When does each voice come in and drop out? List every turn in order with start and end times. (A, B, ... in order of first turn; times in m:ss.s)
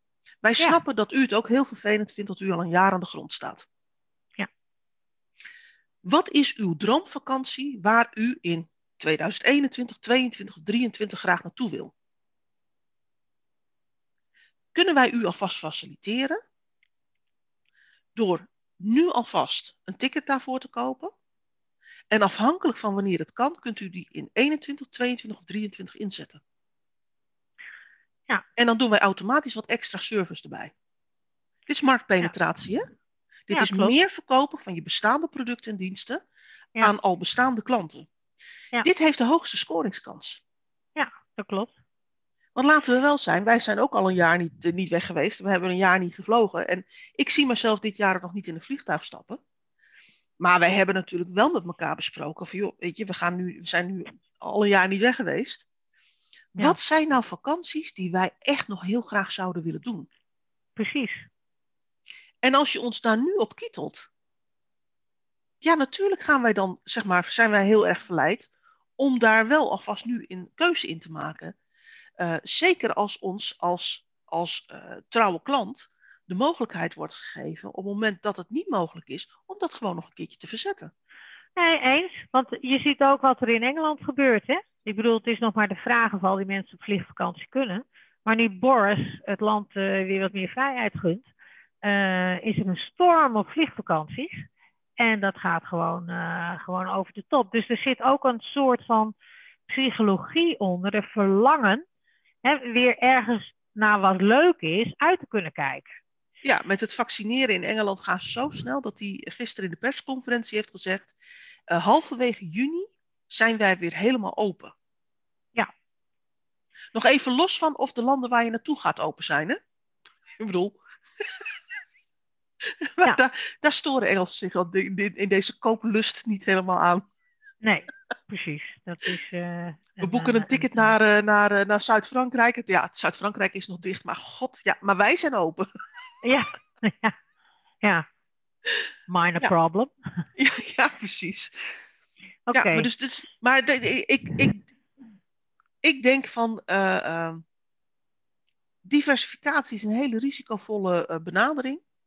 0:00.4-0:03.6 A
0:06.0-0:11.9 A
0:14.7-0:16.4 A
0:18.1-0:21.1 A
0:22.1-0:26.4 A
0:28.6-0:30.7 A
0:31.7-0:32.8 A
0:33.5-0:36.2 A
0:33.5-0:33.9 B
0:36.8-0:38.1 A
0:38.8-0:40.4 A
0:41.0-0:41.7 B
0:42.5-0:49.4 A
0:50.4-0:55.6 A
0:56.6-1:00.1 A
1:00.8-1:01.2 B
1:02.4-1:04.1 A
1:05.6-1:11.5 A
1:12.2-1:20.9 A
1:21.6-1:31.2 B
1:31.8-1:34.4 B
1:35.0-1:39.1 B
1:39.7-1:41.8 B
1:42.4-1:46.0 B
1:46.4-1:51.1 A
1:51.7-1:54.7 A
1:56.9-1:59.6 A
2:00.4-2:00.8 A
2:03.0-2:07.0 A
2:07.6-2:10.9 B
2:10.0-2:15.6 A
2:16.2-2:17.1 B
2:19.1-2:19.9 B
2:20.4-2:21.6 A
2:22.5-2:22.9 B
2:22.5-2:24.7 A
2:25.8-2:27.4 A
2:28.8-2:31.8 A